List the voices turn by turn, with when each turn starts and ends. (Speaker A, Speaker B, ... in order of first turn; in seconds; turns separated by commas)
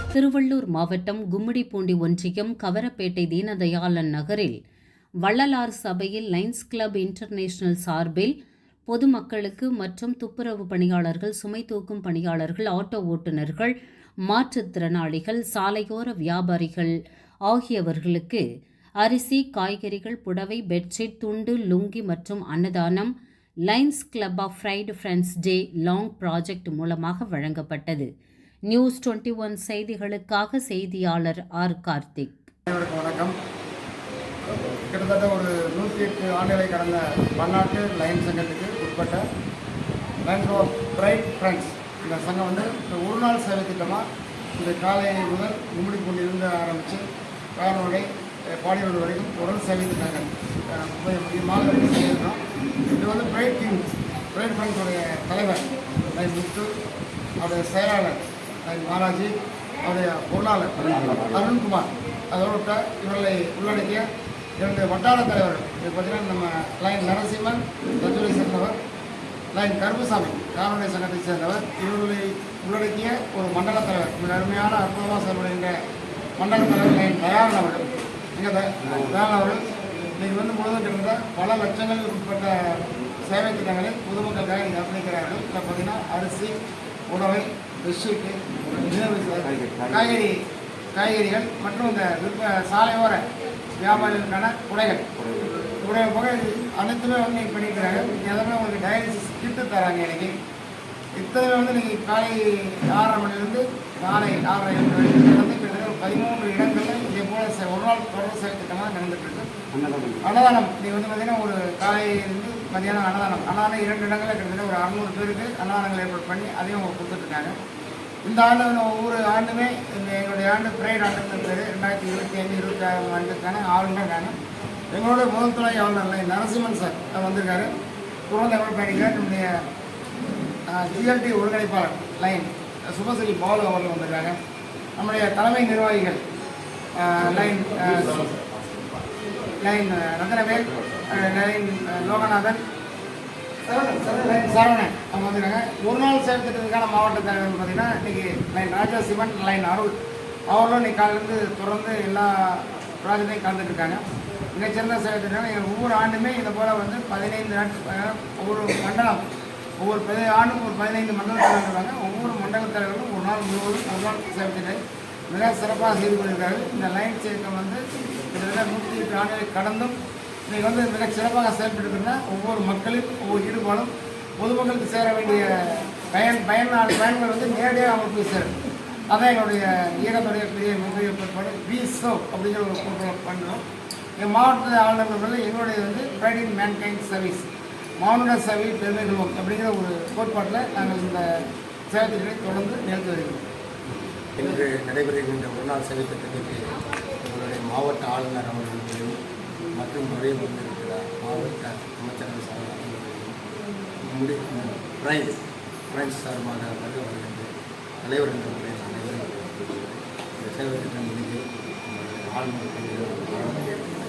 Speaker A: 0.1-4.6, Speaker A: 5.2-8.3, Speaker A: 8.9-13.7, Speaker A: 14.3-16.9, Speaker A: 17.5-18.4, Speaker A: 19.0-23.1, Speaker A: 23.7-28.1, Speaker A: 28.7-32.5, Speaker B: 32.7-33.4, Speaker B: 34.7-39.2, Speaker B: 40.2-47.0, Speaker B: 47.6-56.7, Speaker B: 57.4-64.0, Speaker C: 61.0-61.3, Speaker B: 64.6-68.8, Speaker B: 69.5-75.8, Speaker B: 76.4-79.7, Speaker B: 80.2-86.6, Speaker B: 87.1-90.4, Speaker C: 89.5-90.2, Speaker B: 90.9-93.2, Speaker B: 93.8-95.1, Speaker B: 95.7-100.3, Speaker B: 101.2-109.5, Speaker C: 109.8-110.2, Speaker B: 110.2-117.5, Speaker B: 118.2-124.4, Speaker B: 124.9-127.7, Speaker B: 128.3-129.5, Speaker B: 130.7-134.3, Speaker B: 135.0-136.2, Speaker B: 137.0-138.3, Speaker B: 139.6-142.6, Speaker B: 143.7-149.9, Speaker B: 150.5-154.0, Speaker B: 154.5-159.2, Speaker B: 159.8-164.8, Speaker B: 165.3-170.0, Speaker B: 170.5-178.6, Speaker B: 179.1-183.7, Speaker B: 184.2-187.5, Speaker B: 188.0-191.3, Speaker B: 191.9-193.4, Speaker C: 194.4-196.7, Speaker C: 197.2-199.2, Speaker C: 199.8-203.4, Speaker C: 204.0-205.4, Speaker C: 205.9-207.5, Speaker C: 208.0-213.9